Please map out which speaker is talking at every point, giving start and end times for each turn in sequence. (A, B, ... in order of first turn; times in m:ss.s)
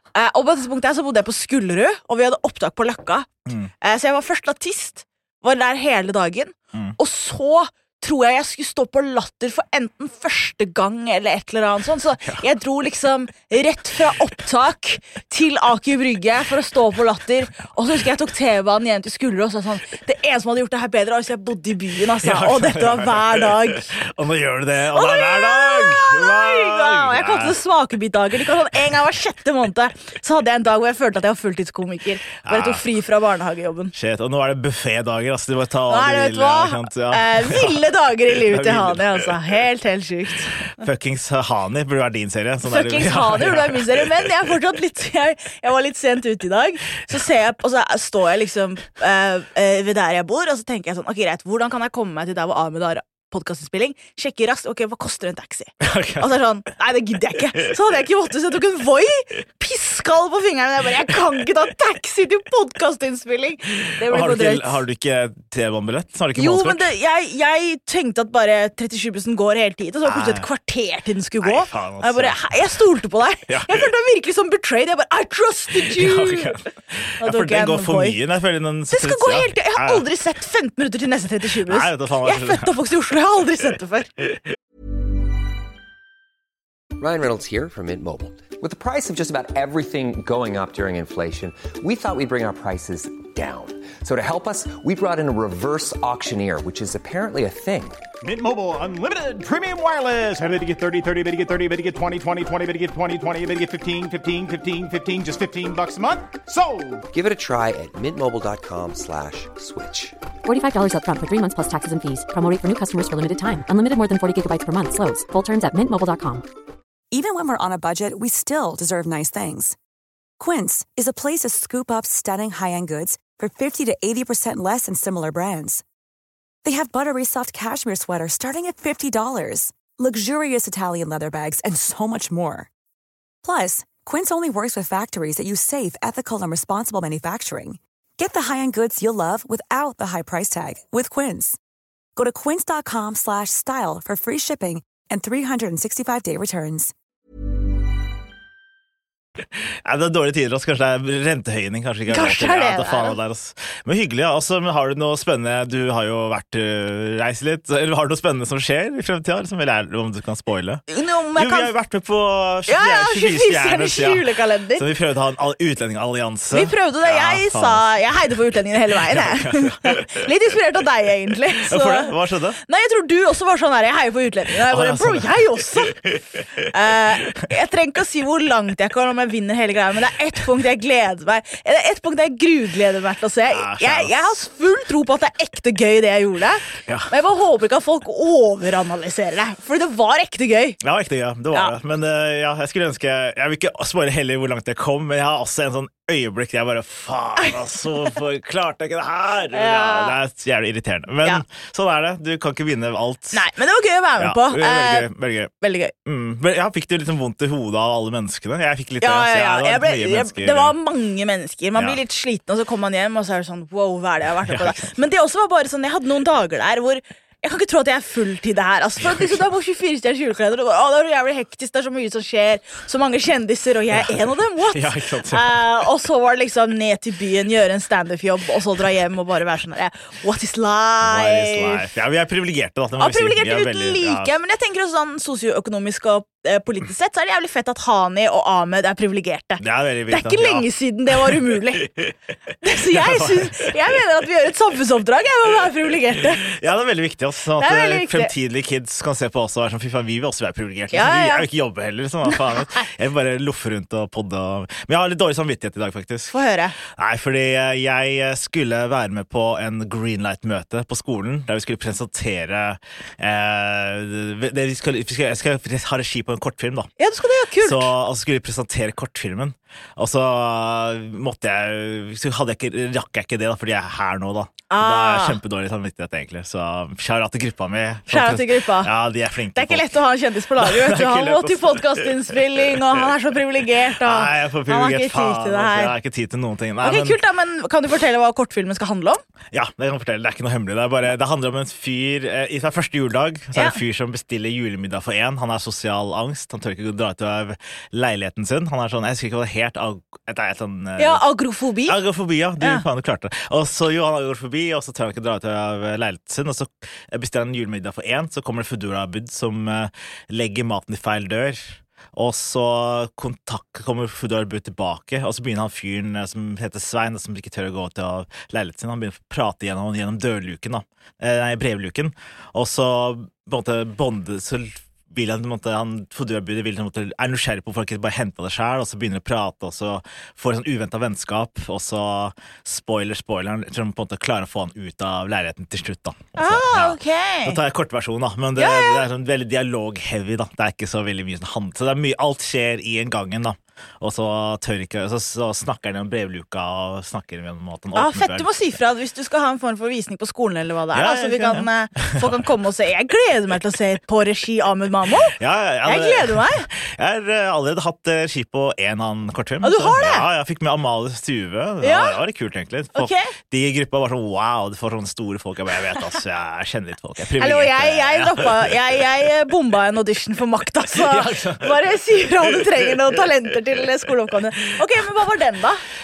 0:00.2-0:23.9 A
0:22.2-0:23.5 B
0:24.0-0:27.6 B
0:24.9-0:33.9 A
0:32.4-0:32.8 B
0:33.9-0:37.8 B
0:35.9-0:40.7 A
0:38.4-0:39.2 B
0:40.8-0:44.1 B
0:42.7-1:04.8 A
0:55.8-0:56.3 B
1:04.1-1:06.9 B
1:06.4-1:16.6 A
1:10.1-1:10.4 B
1:11.4-1:12.4 B
1:13.5-1:13.8 B
1:15.9-1:20.0 B
1:17.2-1:18.2 A
1:18.9-1:24.1 A
1:21.7-1:22.7 B
1:27.0-1:38.0 C
1:38.2-1:47.1 D
1:47.1-1:50.2 C
1:50.4-1:56.4 E
1:57.1-1:59.8 F
2:00.4-2:05.8 F
2:06.6-2:12.7 F
2:13.4-2:21.6 F
2:22.2-2:26.9 F
2:29.8-2:40.8 B
2:32.1-2:33.2 A
2:40.9-2:41.7 A
2:41.4-2:44.2 B
2:42.7-2:44.8 A
2:44.8-2:47.8 B
2:46.5-2:52.1 A
2:49.1-2:50.0 B
2:51.7-2:52.6 B
2:52.6-2:56.1 A
2:54.7-2:55.3 B
2:56.6-3:10.8 A
3:03.5-3:04.1 B
3:06.8-3:07.1 B
3:10.8-3:23.4 B
3:19.5-3:20.2 A
3:23.3-3:25.1 A
3:24.2-3:25.5 B
3:25.6-3:25.9 A
3:26.0-3:30.7 B
3:29.0-3:51.9 A
3:34.5-3:35.0 B
3:43.9-3:45.5 B
3:51.0-3:54.3 B
3:53.0-4:02.0 A
3:59.6-4:00.7 B
4:02.6-4:06.4 A
4:02.9-4:03.7 B
4:06.5-4:16.3 B
4:07.6-4:08.3 A
4:10.9-4:11.5 A
4:12.3-4:12.6 A
4:16.3-4:16.8 A
4:16.9-4:26.9 B
4:27.0-4:27.9 A
4:27.6-4:39.9 B
4:34.7-4:35.4 A
4:38.1-4:38.9 A
4:39.6-4:46.0 A
4:40.6-4:41.8 B
4:44.0-4:47.2 B
4:46.8-4:49.2 A
4:49.5-5:01.2 B
5:01.0-5:02.0 A
5:01.9-5:48.5 B
5:02.6-5:02.8 A
5:36.4-5:37.6 A
5:38.6-5:39.0 A
5:48.0-5:56.7 A
5:50.9-5:52.4 B
5:55.4-6:08.7 B
5:59.6-6:00.3 A
6:01.8-6:02.2 A
6:03.0-6:03.3 A
6:07.4-6:15.8 A
6:11.0-6:11.7 B